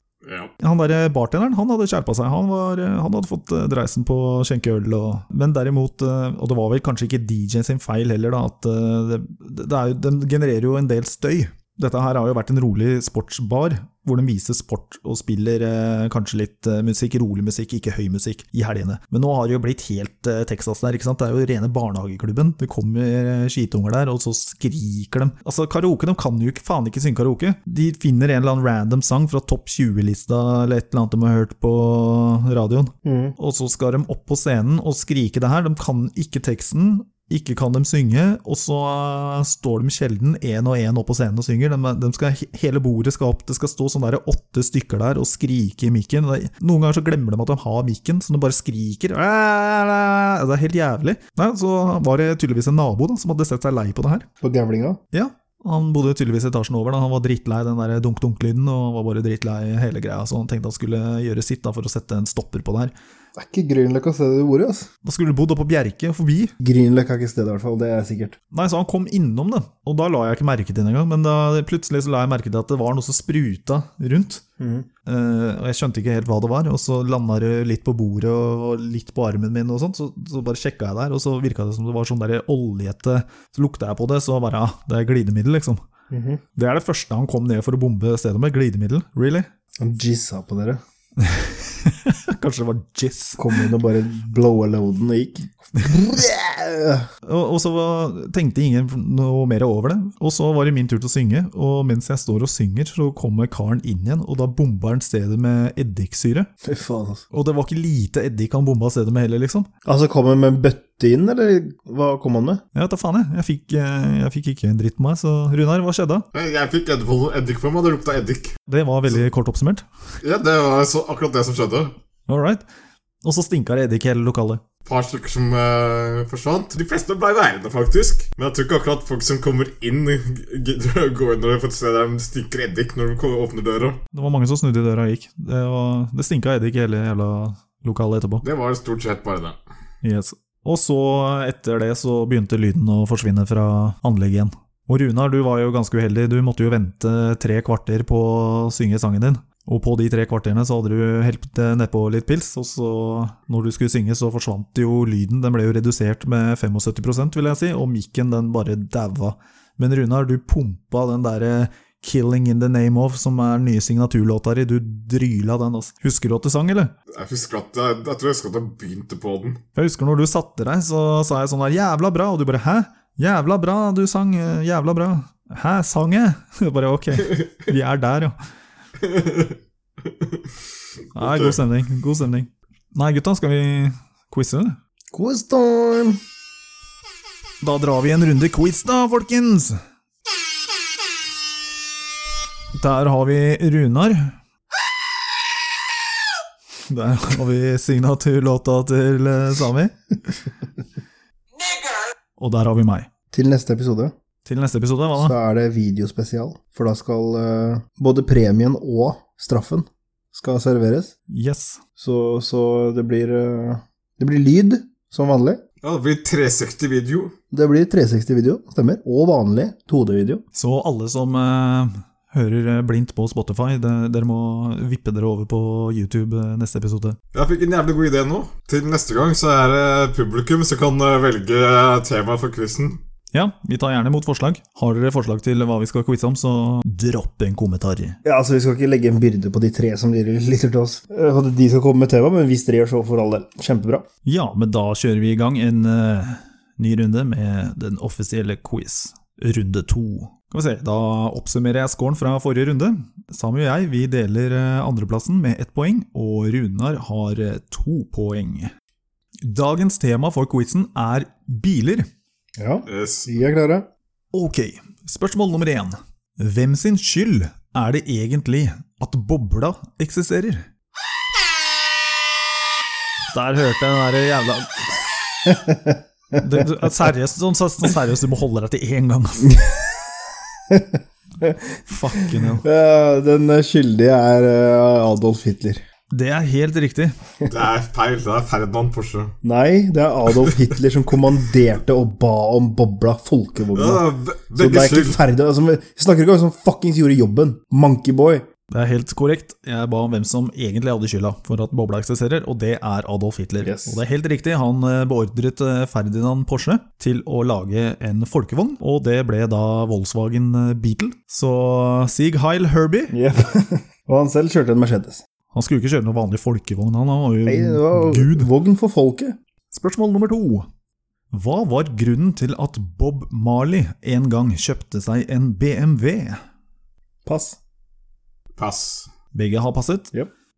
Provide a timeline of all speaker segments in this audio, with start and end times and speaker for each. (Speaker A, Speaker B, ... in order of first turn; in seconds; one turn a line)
Speaker A: 0.2-0.5
Speaker B: 0.6-54.3
Speaker C: 33.0-33.4
Speaker C: 54.4-55.0
Speaker B: 55.1-62.9
Speaker C: 63.4-64.9
Speaker B: 65.0-66.5
Speaker C: 66.6-68.4
Speaker B: 68.5-74.4
Speaker C: 74.6-74.9
Speaker B: 75.0-85.8
Speaker C: 86.1-86.4
Speaker B: 86.5-89.5
Speaker C: 89.8-90.8
Speaker B: 91.2-93.6
Speaker C: 93.4-97.1
Speaker B: 97.2-106.5
Speaker C: 106.6-107.2
Speaker B: 107.3-109.7
Speaker C: 109.8-112.6
Speaker B: 112.7-116.2
Speaker A: 116.3-118.6
Speaker B: 118.7-119.8
Speaker A: 120.2-122.0
Speaker B: 122.3-122.6
Speaker B: 123.2-124.6
Speaker A: 124.8-134.0
Speaker B: 134.1-138.4
Speaker A: 138.4-139.6
Speaker B: 140.0-166.9
Speaker A: 167.1-169.6
Speaker B: 169.8-178.3
Speaker A: 179.0-179.5
Speaker B: 181.1-184.8
Speaker A: 181.2-181.6
Speaker C: 185.1-186.2
Speaker B: 187.6-189.8
Speaker B: 192.8-194.3
Speaker B: 196.8-199.9
Speaker B: 202.4-203.1
Speaker C: 203.3-204.1
Speaker B: 204.4-205.4
Speaker C: 205.2-211.1
Speaker B: 211.3-211.8
Speaker C: 212.0-215.6
Speaker A: 215.8-217.3
Speaker C: 217.5-220.4
Speaker B: 220.5-227.2
Speaker A: 227.3-233.0
Speaker B: 233.3-238.2
Speaker C: 238.2-244.0
Speaker B: 244.2-258.7
Speaker B: 259.4-262.1
Speaker C: 262.6-263.9
Speaker A: 262.9-263.3
Speaker B: 264.3-270.7
Speaker B: 273.3-274.9
Speaker C: 275.4-276.0
Speaker B: 276.3-279.6
Speaker C: 280.7-285.8
Speaker B: 281.9-282.6
Speaker B: 286.1-287.1
Speaker A: 287.5-289.3
Speaker C: 289.4-298.4
Speaker A: 293.7-295.2
Speaker B: 298.7-313.2
Speaker C: 303.6-304.0
Speaker C: 313.1-315.2
Speaker B: 315.5-318.5
Speaker C: 317.4-319.4
Speaker B: 319.7-320.7
Speaker B: 321.3-326.4
Speaker C: 327.2-327.6
Speaker A: 328.6-329.1
Speaker B: 329.3-330.1